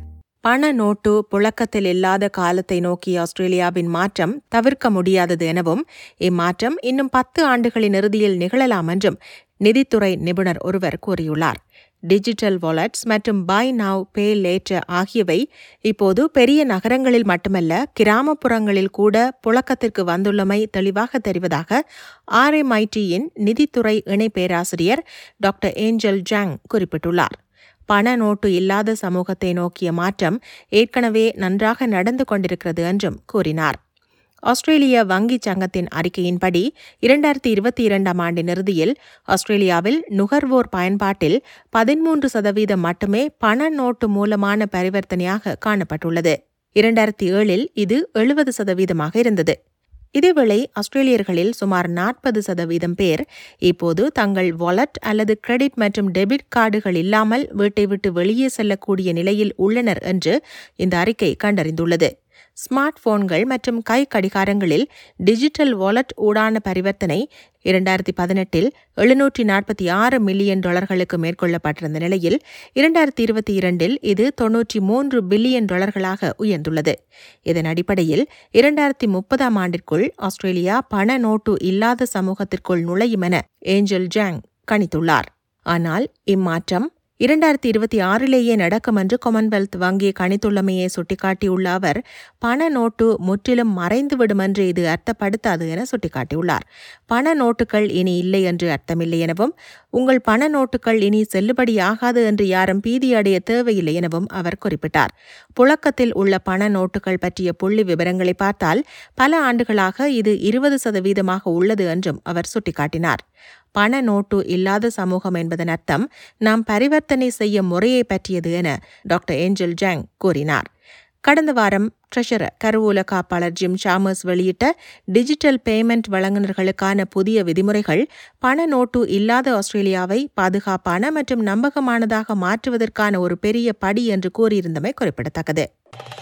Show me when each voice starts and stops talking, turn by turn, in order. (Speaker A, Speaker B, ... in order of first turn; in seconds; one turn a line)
Speaker A: 0.4-11.6
Speaker A: 12.1-21.8
Speaker A: 22.4-27.3
Speaker A: 27.9-33.8
Speaker A: 34.5-49.5
Speaker A: 50.1-62.1
Speaker A: 62.6-76.9
Speaker A: 77.5-113.2
Speaker A: 113.8-120.7
Speaker A: 121.3-135.7